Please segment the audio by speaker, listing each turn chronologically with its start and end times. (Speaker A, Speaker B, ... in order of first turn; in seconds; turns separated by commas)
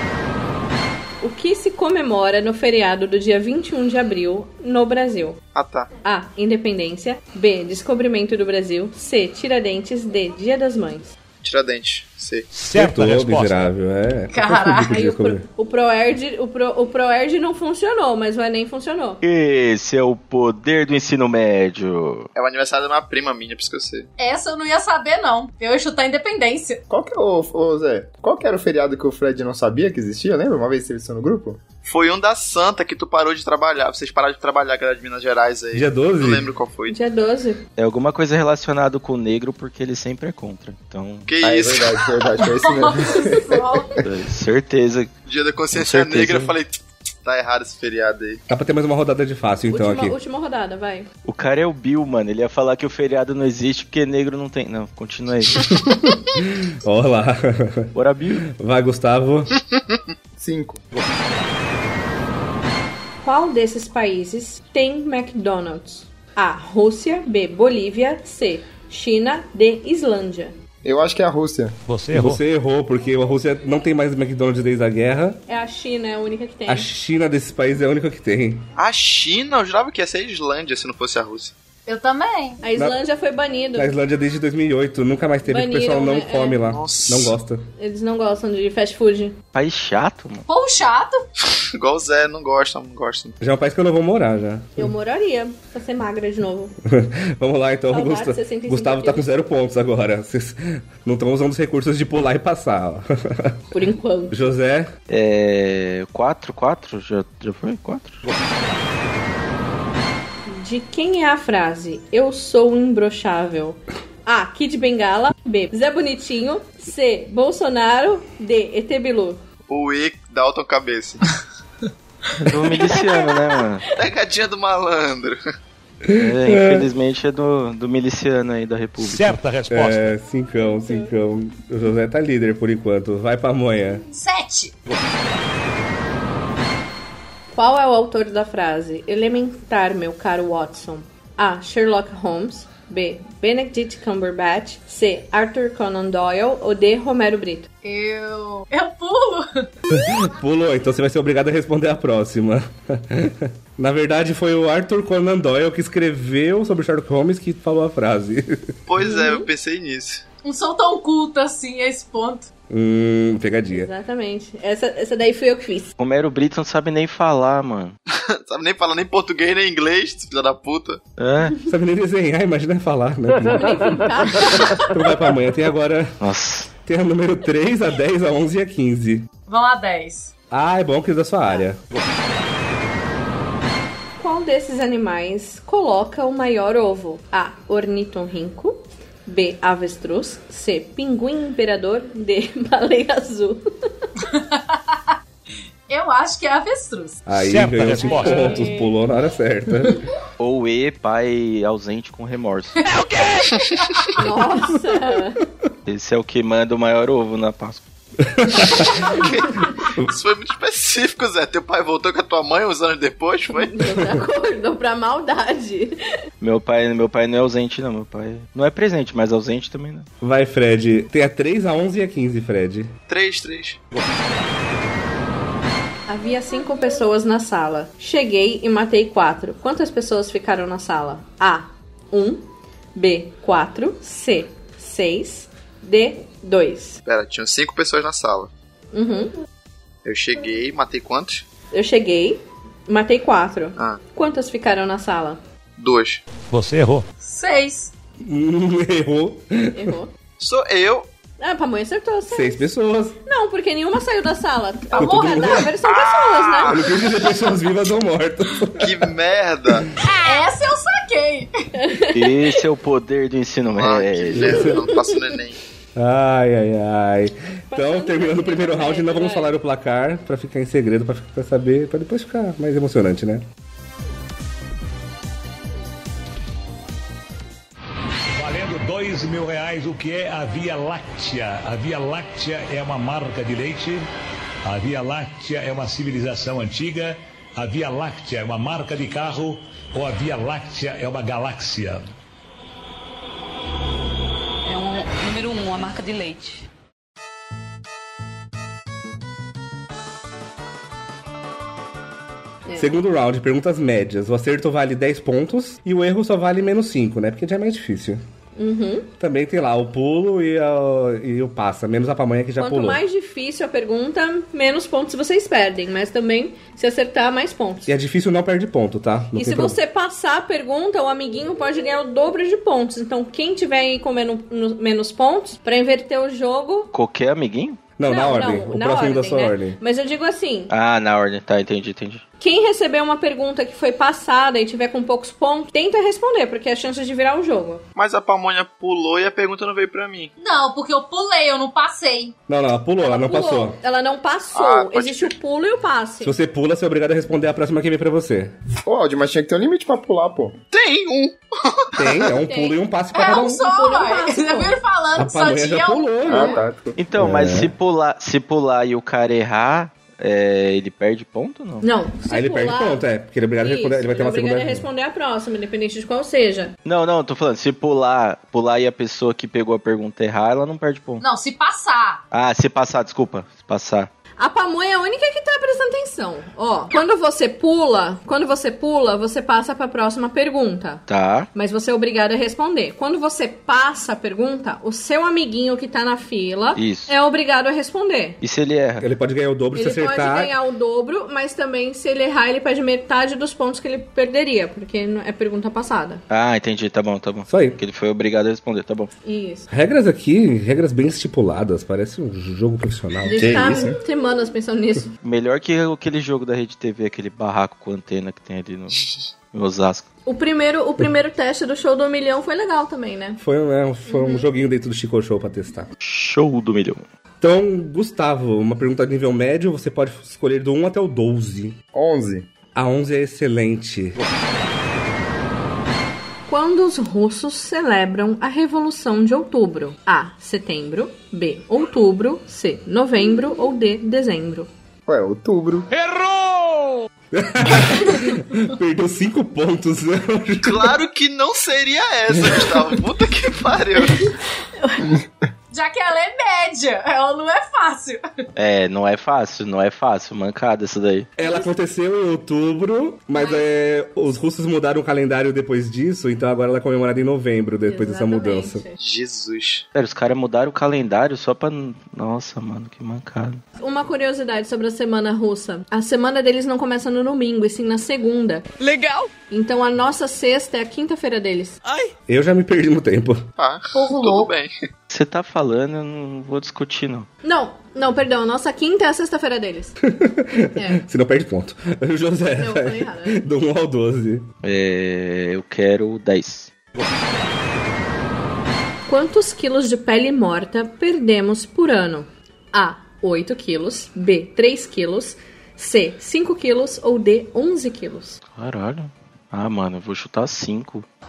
Speaker A: 1.2-5.4, Speaker B: 5.5-5.9, Speaker A: 6.0-11.1, Speaker B: 11.4-12.5, Speaker C: 12.5-13.7, Speaker D: 12.7-15.4, Speaker E: 14.3-14.9, Speaker A: 14.9-19.2, Speaker F: 19.2-22.3, Speaker B: 22.3-24.1, Speaker E: 24.2-26.8, Speaker G: 26.9-31.6, Speaker B: 31.8-36.9, Speaker D: 35.7-36.5, Speaker A: 36.9-37.6, Speaker F: 37.8-41.3, Speaker B: 41.2-42.0, Speaker G: 41.4-43.9, Speaker E: 42.1-44.0, Speaker F: 44.0-45.1, Speaker B: 45.2-48.4, Speaker F: 45.7-46.5, Speaker D: 48.5-50.1, Speaker A: 49.7-51.1, Speaker F: 51.2-55.7, Speaker D: 55.8-57.9, Speaker F: 57.9-58.4, Speaker D: 58.5-59.5, Speaker G: 60.4-60.8, Speaker A: 63.2-70.5, Speaker G: 70.8-71.8, Speaker C: 71.9-72.4, Speaker D: 72.1-75.4, Speaker A: 75.5-76.9, Speaker D: 76.7-78.7, Speaker B: 78.8-81.5, Speaker E: 81.9-82.6, Speaker A: 82.6-83.9, Speaker D: 83.8-87.6, Speaker A: 85.5-86.7, Speaker B: 86.7-87.3, Speaker A: 87.8-89.3, Speaker F: 89.5-90.4, Speaker E: 90.5-91.2, Speaker B: 91.7-93.4, Speaker D: 93.4-94.9, Speaker A: 94.8-96.7, Speaker D: 96.8-103.6, Speaker A: 97.9-99.3, Speaker A: 103.7-104.4, Speaker D: 104.3-104.9, Speaker F: 105.1-108.2, Speaker A: 110.5-119.4, Speaker B: 119.7-121.2, Speaker F: 122.4-123.8, Speaker B: 124.0-125.4, Speaker D: 126.0-126.9, Speaker F: 126.1-129.4, Speaker C: 129.0-130.1, Speaker D: 129.7-134.0, Speaker E: 134.1-134.7, Speaker A: 137.5-147.7, Speaker E: 147.8-149.7, Speaker D: 149.9-158.7, Speaker B: 158.9-160.2, Speaker A: 159.0-159.5, Speaker E: 160.4-162.5, Speaker D: 162.7-163.9, Speaker A: 163.7-165.9, Speaker F: 166.0-167.9, Speaker B: 168.3-171.0, Speaker F: 171.2-171.6, Speaker D: 171.6-176.1, Speaker A: 173.5-174.9, Speaker F: 176.2-176.7, Speaker D: 176.8-179.3, Speaker E: 179.5-180.3, Speaker D: 180.5-181.8, Speaker A: 184.2-193.6, Speaker E: 194.3-194.8, Speaker E: 195.9-197.2, Speaker D: 197.2-200.0, Speaker C: 197.4-198.5, Speaker E: 198.0-198.8, Speaker A: 198.2-198.8, Speaker F: 200.4-202.7, Speaker E: 202.8-203.3, Speaker A: 204.2-205.4, Speaker F: 205.8-207.8, Speaker D: 208.3-208.9, Speaker B: 210.0-213.7, Speaker A: 213.5-215.9, Speaker F: 216.4-220.1, Speaker D: 220.2-222.9, Speaker B: 223.1-223.8, Speaker A: 226.1-237.0, Speaker B: 237.0-238.5, Speaker A: 238.9-239.3, Speaker B: 240.0-241.4, Speaker A: 241.7-245.4, Speaker B: 245.8-246.2, Speaker C: 246.5-247.0, Speaker E: 247.2-247.9, Speaker D: 248.2-249.9, Speaker A: 249.7-250.1, Speaker B: 250.4-251.1, Speaker A: 251.4-252.6, Speaker D: 252.3-253.2, Speaker A: 253.2-256.8, Speaker D: 254.9-255.7, Speaker E: 255.0-255.6, Speaker B: 255.8-257.0, Speaker D: 256.7-259.1, Speaker B: 258.8-259.9, Speaker E: 260.1-261.5, Speaker A: 261.8-262.3, Speaker F: 262.1-264.7, Speaker B: 263.7-265.6, Speaker D: 264.4-264.8, Speaker A: 264.9-265.1, Speaker D: 265.9-273.4, Speaker A: 267.7-269.6, Speaker C: 278.3-284.1, Speaker C: 284.6-292.1, Speaker H: 294.6-296.6, Speaker D: 302.8-308.2, Speaker A: 308.6-309.1, Speaker D: 309.2-313.0, Speaker A: 312.6-317.9, Speaker D: 317.9-319.8, Speaker A: 319.3-326.9, Speaker F: 326.9-327.8, Speaker D: 328.0-329.8, Speaker A: 328.1-330.7, Speaker F: 330.7-332.2, Speaker A: 332.4-337.8, Speaker B: 337.9-340.3, Speaker E: 340.4-342.3, Speaker D: 342.5-343.8, Speaker A: 343.0-346.4, Speaker B: 344.5-345.3, Speaker D: 346.2-348.5, Speaker G: 348.8-350.6, Speaker B: 350.7-352.2, Speaker D: 351.9-353.6, Speaker A: 352.4-354.8, Speaker E: 353.1-356.5, Speaker D: 355.1-356.6, Speaker G: 356.2-357.0, Speaker A: 356.3-356.6, Speaker F: 357.0-361.9, Speaker D: 357.1-357.7, Speaker A: 361.8-363.0, Speaker D: 362.3-364.9, Speaker A: 363.6-366.7, Speaker F: 366.8-371.2, Speaker E: 371.2-372.2, Speaker F: 372.3-374.1, Speaker A: 374.4-381.0, Speaker F: 381.1-381.5, Speaker A: 381.5-388.4, Speaker F: 386.7-387.1, Speaker F: 388.4-389.1, Speaker D: 389.0-390.5, Speaker A: 389.7-396.2, Speaker F: 396.3-399.1, Speaker D: 397.5-397.8, Speaker A: 399.2-399.7, Speaker D: 399.7-403.8, Speaker A: 403.2-405.1, Speaker G: 403.4-404.0, Speaker F: 405.2-410.1, Speaker A: 410.2-413.4, Speaker D: 413.4-415.9, Speaker A: 414.1-414.4, Speaker F: 416.0-417.0, Speaker D: 417.4-421.8, Speaker G: 421.9-422.5, Speaker D: 422.7-424.2, Speaker A: 426.5-434.7, Speaker G: 435.1-435.9, Speaker C: 435.9-436.9, Speaker D: 437.3-441.0, Speaker B: 440.6-444.2, Speaker E: 445.7-448.2, Speaker F: 448.6-451.3, Speaker D: 451.4-458.8, Speaker A: 457.9-458.9, Speaker B: 459.0-459.8, Speaker F: 459.9-463.6, Speaker A: 463.8-468.7, Speaker A: 469.5-471.8, Speaker D: 472.3-473.4, Speaker B: 473.6-474.7, Speaker E: 473.9-474.5, Speaker F: 475.1-477.3, Speaker A: 477.4-480.0, Speaker D: 480.0-484.4, Speaker A: 480.8-481.0, Speaker A: 482.6-483.4, Speaker F: 484.6-486.7, Speaker A: 489.1-498.4, Speaker F: 498.5-501.1